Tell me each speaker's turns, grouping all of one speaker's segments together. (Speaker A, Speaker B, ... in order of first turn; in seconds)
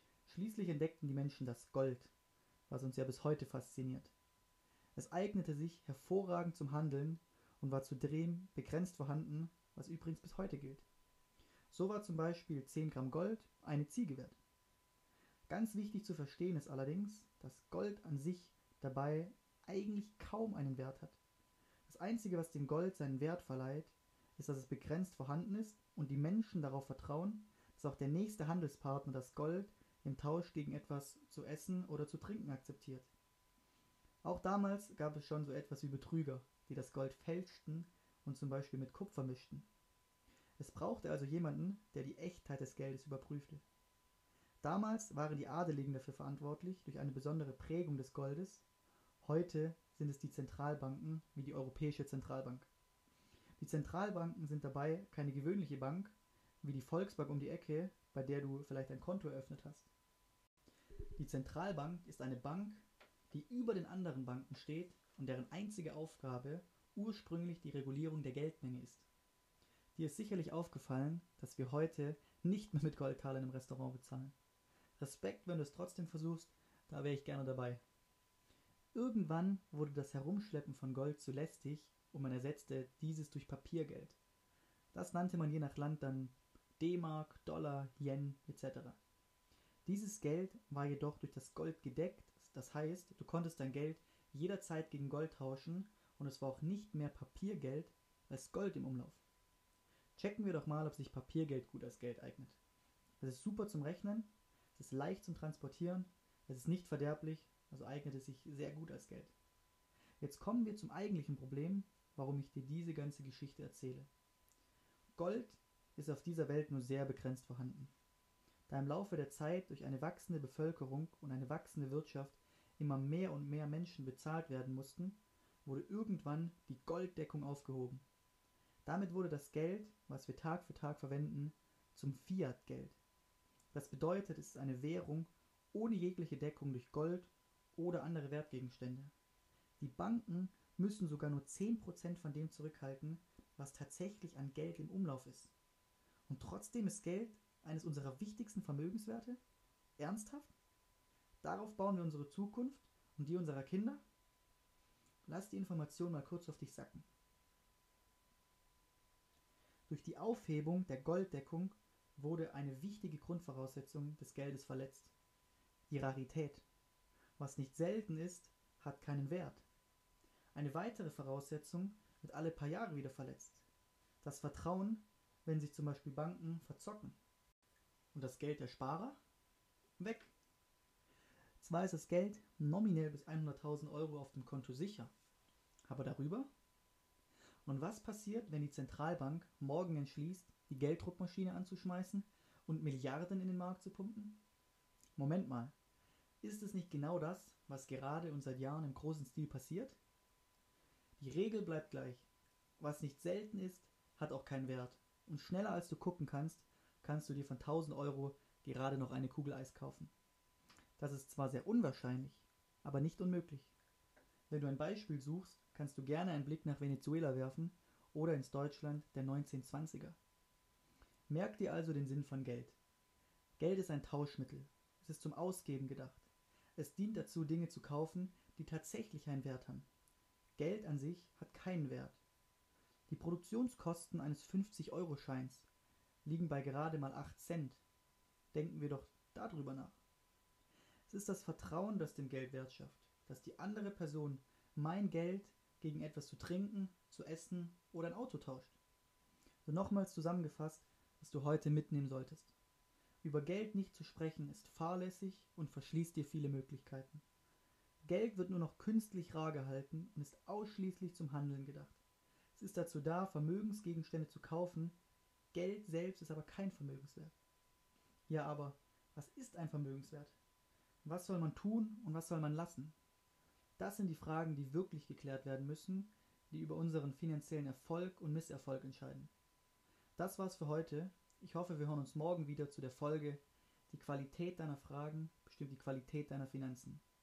Speaker A: 0.3-2.1, 2.7-4.1, 5.0-10.8, 11.7-14.4, 15.5-21.2, 21.9-33.1, 34.2-39.7, 40.6-43.6, 44.6-48.7, 49.2-52.7, 53.6-59.9, 61.2-69.1, 70.0-74.3, 75.0-77.8, 78.9-84.2, 84.9-89.0, 89.9-99.2, 100.2-102.6, 103.2-109.3, 110.2-114.1, 115.2-117.9, 118.7-128.0, 128.8-133.0, 133.7-139.1, 139.8-145.5, 146.3-149.4, 150.0-150.5, 151.4-154.0, 155.3-157.1, 159.9-165.1, 165.9-166.7, 167.4-169.7, 170.5-173.7, 174.2-177.2, 178.1-179.2, 180.0-180.3, 181.6-185.1, 185.9-186.5, 187.7-194.4, 195.2-195.7, 196.4-200.0, 201.2-202.3, 202.8-210.1, 211.0-213.7, 214.5-220.2, 221.3-222.8, 223.6-229.9, 230.6-232.2, 233.1-235.7, 236.2-237.8, 238.5-240.0, 241.1-248.8, 249.7-252.5, 253.2-257.2, 258.1-262.0, 262.6-265.0, 265.5-267.4, 268.3-270.4, 271.1-272.9, 273.8-279.3, 280.2-287.0